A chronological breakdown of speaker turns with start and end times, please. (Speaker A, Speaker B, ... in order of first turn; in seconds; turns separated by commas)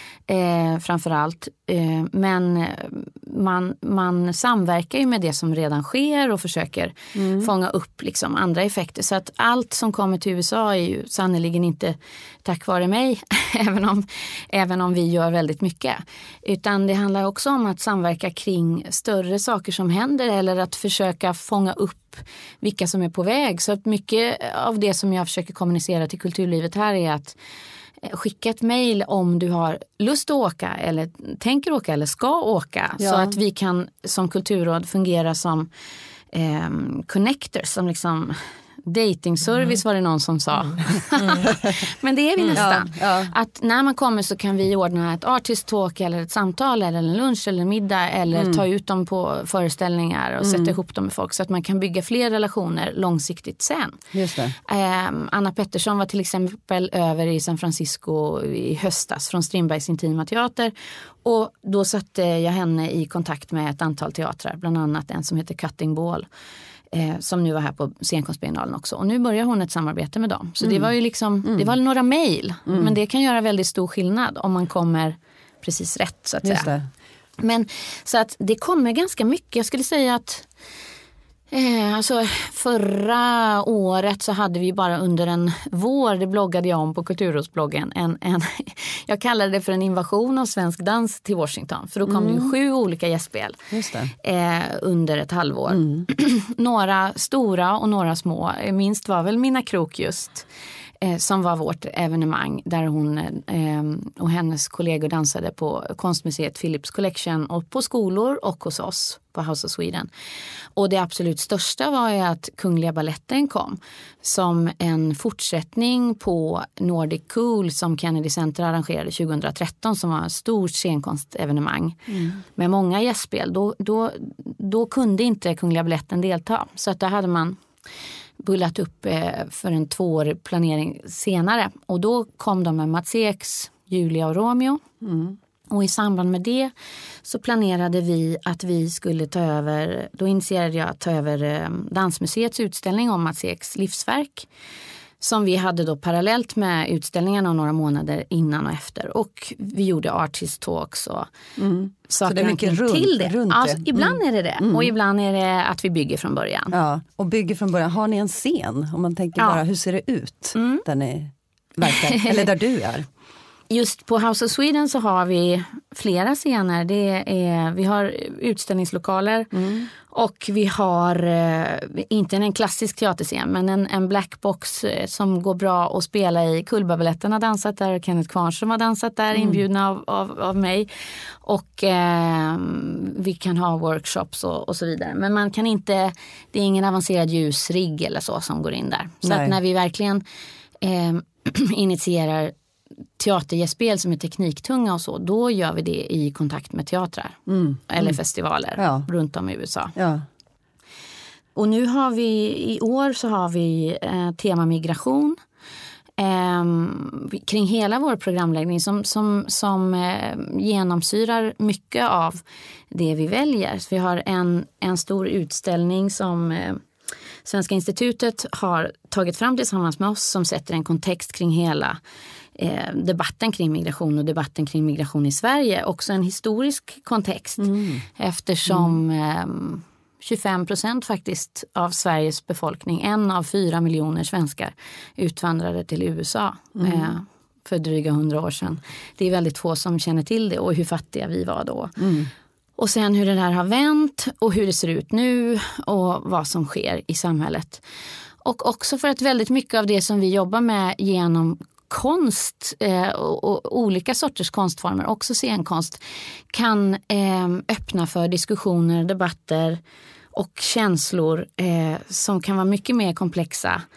Speaker A: 0.3-27.4, Speaker B: 7.1-7.5, Speaker A: 28.0-35.7, Speaker B: 33.0-33.3, Speaker A: 36.3-54.0, Speaker B: 42.5-43.3, Speaker B: 48.3-48.6, Speaker B: 50.4-50.7, Speaker B: 54.1-54.5, Speaker A: 54.6-66.3, Speaker A: 66.9-76.7, Speaker B: 70.6-70.9, Speaker B: 71.4-71.7, Speaker B: 72.7-72.9, Speaker B: 76.4-76.9, Speaker A: 77.4-80.5, Speaker A: 81.5-93.6, Speaker B: 92.0-92.5, Speaker B: 93.7-94.1, Speaker A: 94.2-100.5, Speaker B: 95.7-96.0, Speaker A: 101.0-110.1, Speaker A: 110.8-127.6, Speaker A: 128.4-134.8, Speaker B: 135.0-135.3, Speaker A: 135.7-136.7, Speaker A: 137.2-144.5, Speaker A: 145.2-151.3, Speaker B: 151.6-154.9, Speaker A: 152.1-156.7, Speaker B: 156.7-163.1, Speaker A: 160.5-160.8, Speaker A: 162.1-162.5, Speaker A: 163.7-190.2, Speaker B: 169.5-169.8, Speaker B: 179.3-179.6, Speaker B: 189.2-189.5, Speaker A: 190.8-192.5, Speaker A: 193.2-199.9, Speaker B: 197.5-198.1, Speaker B: 198.8-199.1, Speaker B: 199.9-200.2, Speaker A: 201.5-205.4, Speaker A: 206.2-216.8, Speaker A: 217.4-222.0, Speaker A: 222.6-242.0, Speaker B: 227.6-228.0, Speaker B: 236.8-237.1, Speaker B: 242.0-242.3, Speaker A: 242.8-247.8, Speaker A: 248.4-259.8, Speaker A: 260.3-263.8